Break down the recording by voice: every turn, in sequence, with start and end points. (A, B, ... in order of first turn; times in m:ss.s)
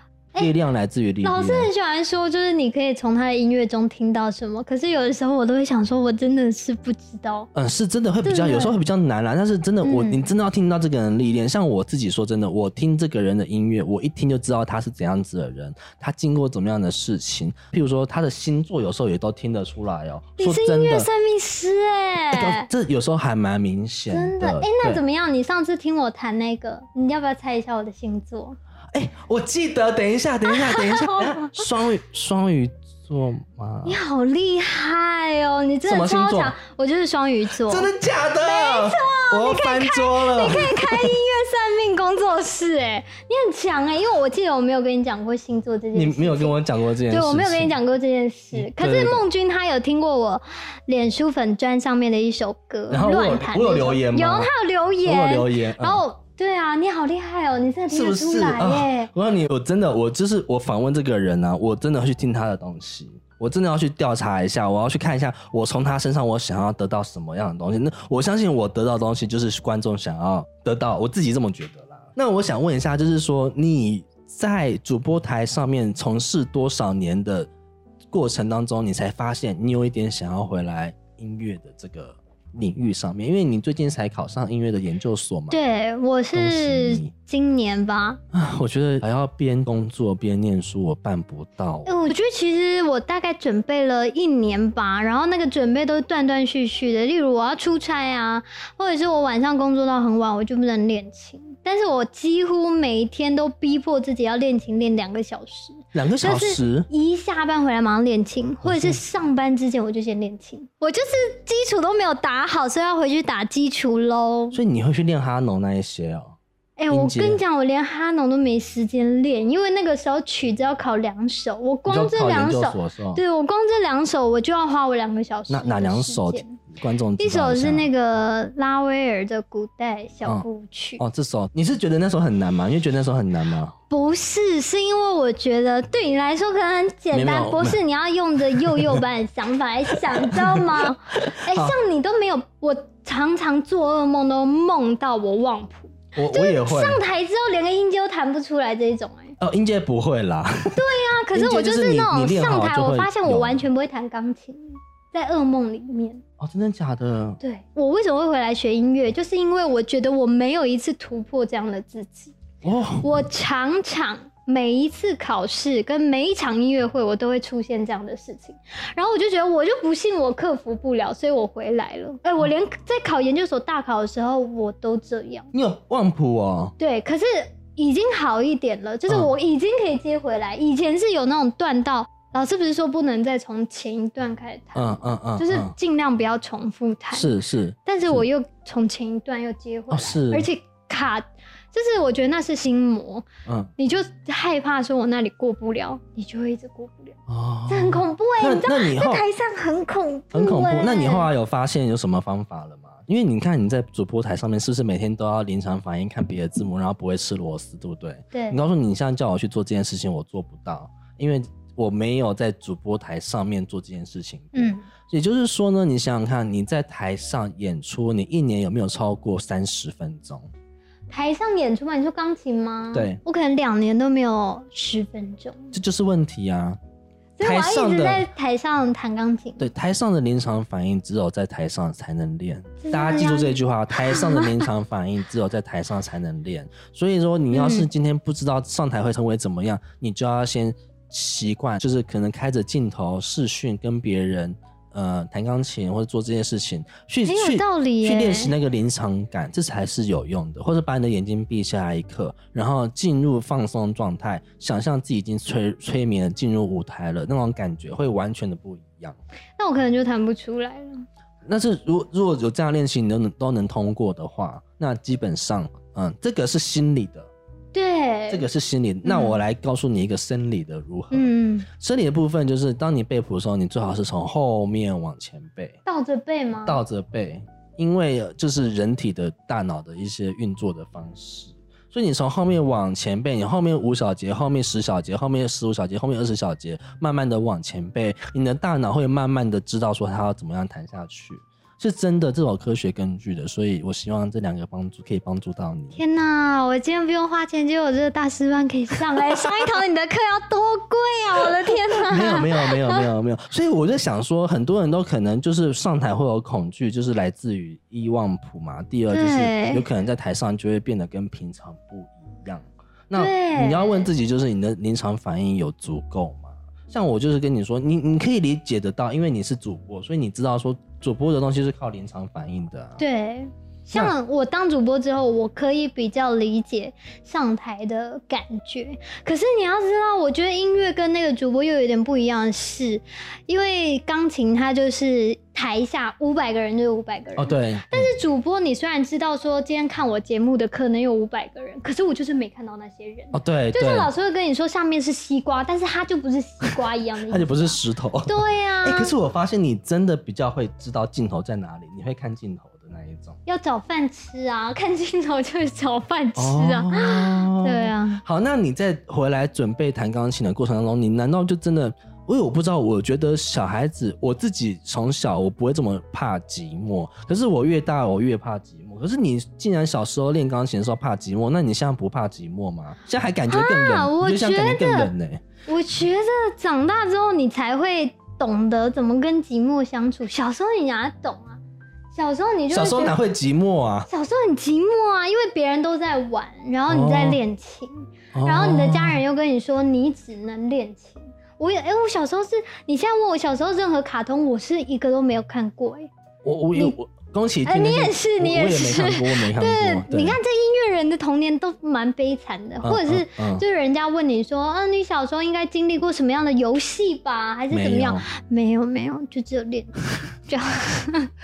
0:00.4-0:01.7 A
0:01.2-0:07.5 B
0:07.5-0:21.1 A
0:08.2-0:08.8 B
0:09.8-0:10.3 B
0:20.4-0:22.7 B
0:22.3-0:25.0 A
0:24.1-0:28.6 B
0:28.9-0:34.0 A
0:30.5-0:31.6 B
0:33.8-0:59.1 B
0:35.8-0:36.6 A
0:37.6-0:41.1 A
0:45.9-0:47.8 A
0:48.5-0:49.2 A
0:52.9-0:54.5 A
0:55.0-0:56.0 A
0:57.9-1:17.5 A
1:18.1-1:25.6 A
1:25.5-1:28.2 B
1:26.3-1:27.1 A
1:28.3-1:31.9 A
1:31.8-1:54.6 B
1:45.9-1:46.9 A
1:48.6-1:49.0 A
1:54.5-1:56.4 A
1:56.8-2:06.6 B
1:56.9-1:57.4 A
2:01.9-2:03.2 A
2:05.5-2:07.9 A
2:07.2-2:11.0 B
2:11.0-2:13.8 A
2:13.9-2:29.4 B
2:17.1-2:17.8 A
2:18.6-2:19.0 A
2:20.1-2:21.8 A
2:26.2-2:27.0 A
2:29.4-2:30.8 A
2:30.7-2:36.2 B
2:31.3-2:33.6 A
2:36.4-2:37.4 A
2:37.4-2:42.4 B
2:42.6-2:43.1 A
2:43.0-2:55.5 B
2:55.5-2:56.8 A
2:56.8-3:07.3 B
3:04.8-3:05.7 A
3:07.1-3:08.2 A
3:07.9-3:13.3 B
3:09.9-3:10.5 A
3:13.4-3:13.7 A
3:13.8-3:21.3 B
3:17.3-3:19.2 A
3:20.3-3:40.5 A
3:28.3-3:28.6 B
3:34.5-3:34.8 B
3:41.1-3:45.7 B
3:42.9-3:43.2 A
3:45.7-3:46.8 A
3:47.4-3:49.7 B
3:47.4-3:48.3 A
3:49.6-4:19.2 A
3:52.8-3:54.6 B
3:57.5-3:57.9 B
4:07.3-4:08.5 B
4:19.6-4:21.0 B
4:21.4-4:27.3 A
4:27.7-4:28.4 B
4:28.3-4:35.8 A
4:29.0-4:29.4 B
4:31.1-4:31.7 B
4:35.8-4:36.8 B
4:36.6-4:56.0 A
4:55.9-5:03.0 B
5:02.1-5:23.0 A
5:09.1-5:09.8 B
5:13.2-5:14.1 B
5:23.0-5:49.1 B
5:37.4-5:38.1 A
5:43.3-5:44.1 A
5:47.3-5:53.4 A
5:53.4-5:58.2 B
5:56.4-6:15.4 A
6:13.5-6:15.1 B
6:15.7-6:21.6 B
6:22.1-6:23.2 B
6:22.7-6:24.1 A
6:24.1-6:36.1 B
6:26.9-6:27.4 A
6:28.3-6:29.2 A
6:36.4-6:40.4 A
6:37.6-6:51.3 B
6:42.8-6:43.6 A
6:47.7-6:48.2 A